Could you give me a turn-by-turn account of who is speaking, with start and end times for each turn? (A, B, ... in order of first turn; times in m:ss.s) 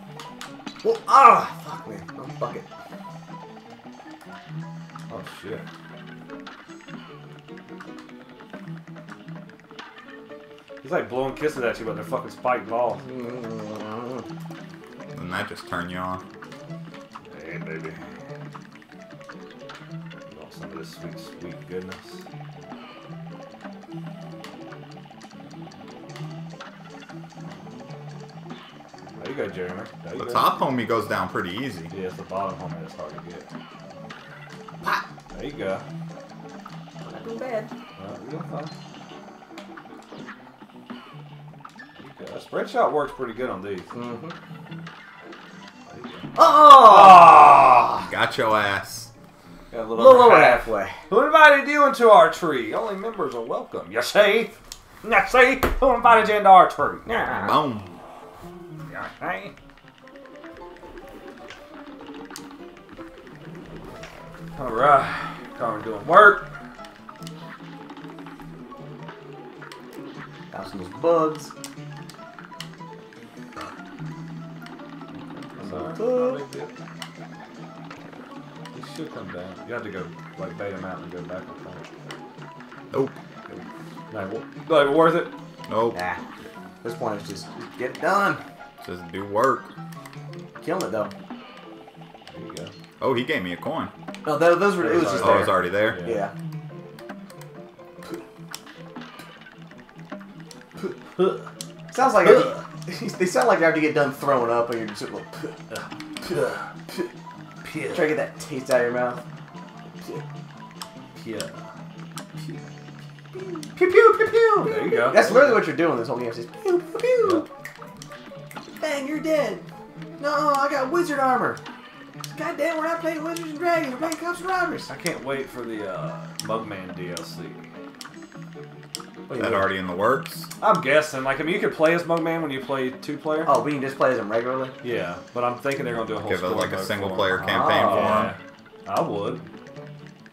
0:00.8-0:02.7 A
0:05.1-0:05.6 B
0:10.8-0:13.0 B
0:13.0-0:14.2 A
0:15.1-0:16.2 C
0:17.3-0:18.0 B
0:20.3-0:22.2 B
0:29.2-0:30.5 B
0:30.2-0:31.9 C
0:31.9-0:33.5 B
0:35.3-0:35.8 B
0:37.0-0:37.7 A
0:38.0-0:38.7 B
0:42.0-0:43.9 B
0:43.9-0:44.3 A
0:45.8-0:48.0 B
0:46.3-0:48.0 A
0:48.1-0:49.1 C
0:49.7-0:57.1 B
0:49.9-0:51.0 A
0:57.0-0:57.6 A
0:57.1-0:57.9 C
0:58.9-0:59.5 B
1:04.6-1:06.5 B
1:10.5-1:11.5 A
1:15.1-1:16.7 B
1:15.6-1:16.4 A
1:18.7-1:21.9 B
1:23.5-1:25.3 B
1:25.7-1:26.0 C
1:25.9-1:26.2 A
1:26.8-1:28.4 A
1:28.8-1:29.7 C
1:30.6-1:31.1 A
1:32.3-1:32.7 B
1:33.0-1:33.9 C
1:34.2-1:36.3 A
1:34.7-1:36.3 B
1:35.1-1:36.0 C
1:40.8-1:41.4 B
1:41.9-1:45.6 A
1:42.1-1:42.6 B
1:45.7-1:46.7 B
1:47.6-1:48.1 B
1:47.9-1:49.2 A
1:50.0-1:50.2 A
1:51.2-1:51.6 B
1:52.4-1:52.6 A
1:53.3-1:57.5 A
1:54.6-1:55.7 B
1:57.2-1:57.5 B
1:58.7-1:59.6 A
2:00.2-2:01.6 A
2:02.2-2:04.9 A
2:04.9-2:07.7 B
2:09.3-2:09.7 A
2:09.4-2:10.5 C
2:10.6-2:13.5 B
2:13.4-2:14.7 A
2:14.8-2:19.4 B
2:16.2-2:18.3 C
2:17.3-2:18.3 A